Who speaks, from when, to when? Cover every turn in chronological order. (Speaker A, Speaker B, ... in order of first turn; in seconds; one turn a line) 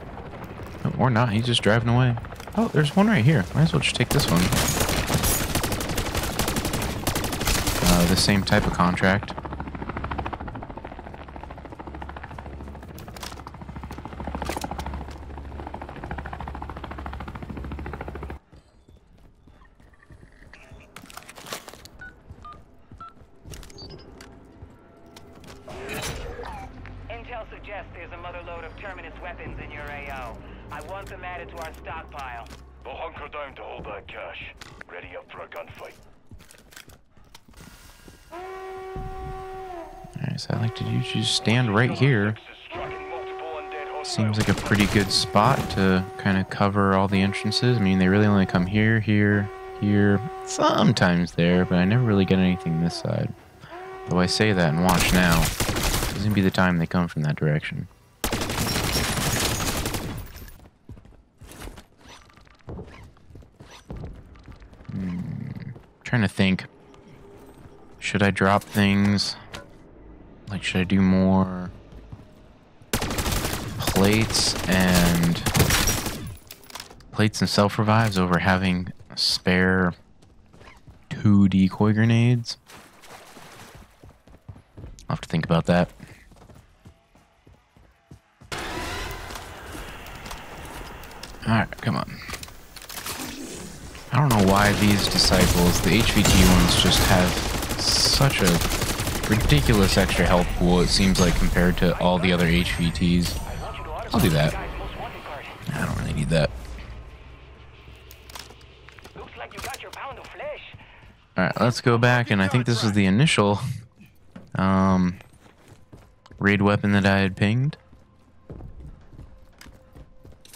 Speaker A: 0.8-4.6
Speaker A: 7.8-9.4
Speaker B: 27.1-32.5
Speaker C: 32.8-36.0
Speaker A: 40.2-42.4
Speaker C: 41.4-44.9
Speaker A: 44.0-53.3
Speaker A: 54.1-55.5
Speaker A: 56.1-57.9
Speaker A: 64.9-66.7
Speaker A: 68.0-69.4
Speaker A: 70.5-71.7
Speaker A: 73.8-75.5
Speaker A: 77.1-80.0
Speaker A: 81.1-82.6
Speaker A: 85.1-85.9
Speaker A: 91.5-92.2
Speaker A: 94.1-98.6
Speaker A: 99.3-103.4
Speaker B: 102.0-102.8
Speaker B: 103.5-105.6
Speaker A: 104.1-104.5
Speaker A: 105.7-106.5
Speaker B: 109.2-110.8
Speaker A: 111.4-113.7
Speaker C: 111.6-113.0
Speaker A: 114.5-115.2
Speaker A: 116.4-117.8